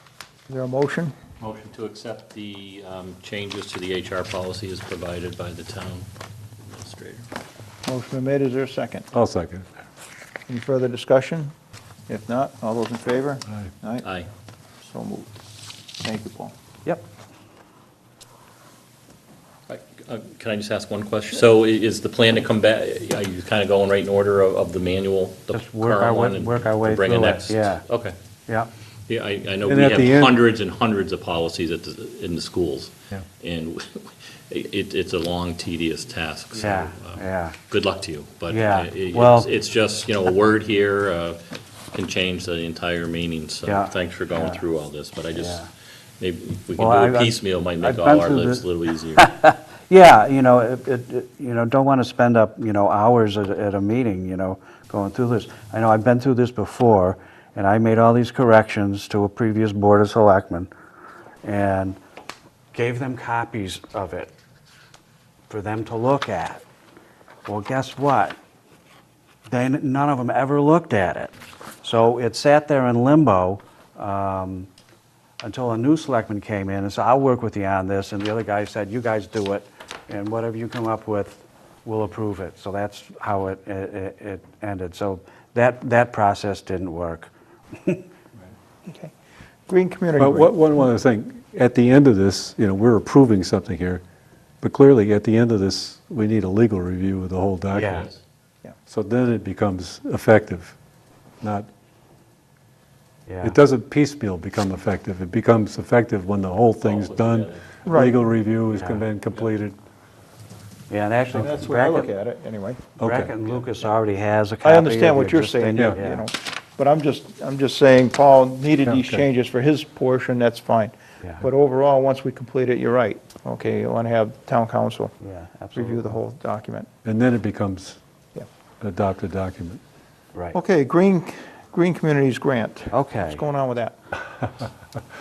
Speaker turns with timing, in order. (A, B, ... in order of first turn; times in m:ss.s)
0:00.5-0:01.1 A
0:01.4-0:06.1 B
0:06.6-0:07.3 B
0:07.8-0:09.0 A
0:09.1-0:09.7 C
0:10.5-0:11.5 A
0:12.1-0:14.0 A
0:14.0-0:14.3 B
0:14.8-0:15.3 A
0:16.0-0:16.5 A
0:19.7-0:28.1 B
0:25.5-0:27.8 D
0:29.1-0:41.4 B
0:29.6-0:30.4 C
0:36.5-0:37.6 D
0:38.5-0:39.5 D
0:41.9-0:45.6 B
0:43.6-0:44.6 D
0:45.3-0:45.7 D
0:46.2-0:49.2 B
0:46.8-1:00.7 D
1:01.4-1:02.0 D
1:02.7-1:04.3 D
1:05.5-1:06.6 D
1:07.4-1:08.4 D
1:09.5-1:14.7 D
1:15.4-1:28.0 D
1:28.8-1:29.1 A
1:29.7-1:30.8 A
1:30.2-1:34.0 C
1:34.6-1:38.0 C
1:37.7-1:38.1 D
1:37.8-1:38.2 B
1:38.9-1:40.8 C
1:41.4-1:41.7 C
1:43.3-1:43.6 D
1:43.4-1:49.8 C
1:46.8-1:47.7 B
1:47.8-1:48.2 A
1:48.7-1:49.0 D
1:50.9-1:52.1 D
1:51.3-1:52.8 A
1:53.0-1:53.3 C
1:53.0-1:56.2 D
1:54.6-2:05.1 A
1:55.8-1:56.0 C
1:58.8-1:59.2 C
2:05.2-2:06.2 D
2:05.7-2:06.9 A
2:07.0-2:08.0 C
2:08.8-2:09.8 C
2:10.5-2:13.9 A
2:12.9-2:13.4 D